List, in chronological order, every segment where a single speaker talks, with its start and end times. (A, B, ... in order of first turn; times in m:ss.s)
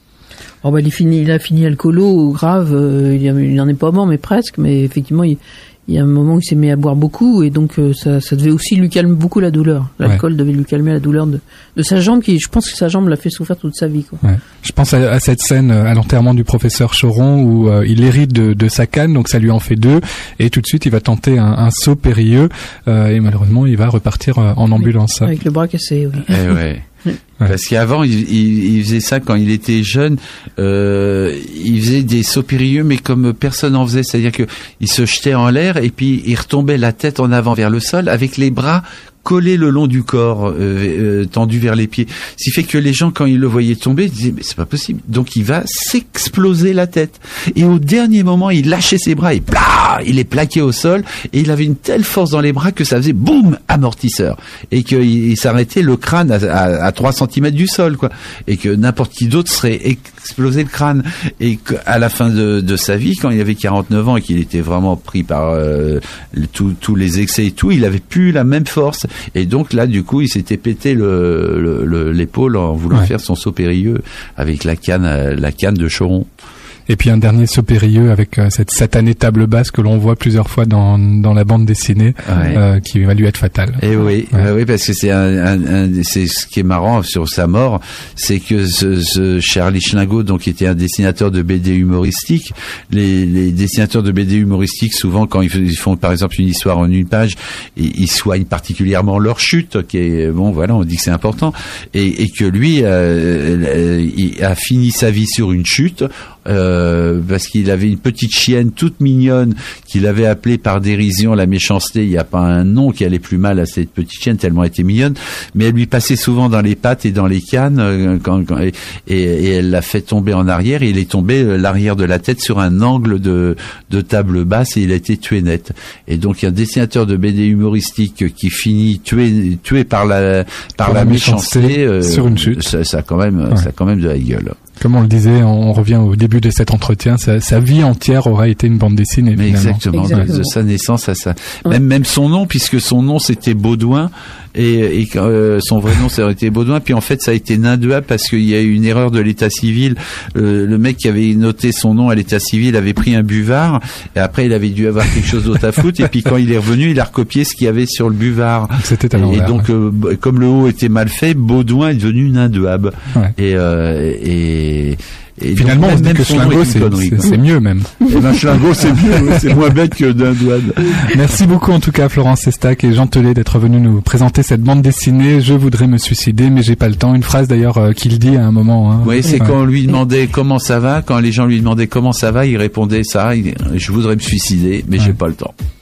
0:00.6-0:14.2 A
0:14.2-0:25.3 B
0:24.8-0:27.2 A
0:26.3-0:26.8 C
0:27.4-1:16.3 C
1:16.9-1:23.8 B
1:22.2-1:22.6 C
1:22.3-1:22.6 A
1:23.8-2:14.6 C
2:10.8-2:12.7 B
2:14.8-2:20.3 B
2:19.4-2:47.4 C
2:19.9-2:20.5 A
2:38.8-2:39.6 B
2:45.6-2:48.1 B
2:48.1-2:51.2 C
2:51.1-2:59.6 B
2:59.0-3:05.5 C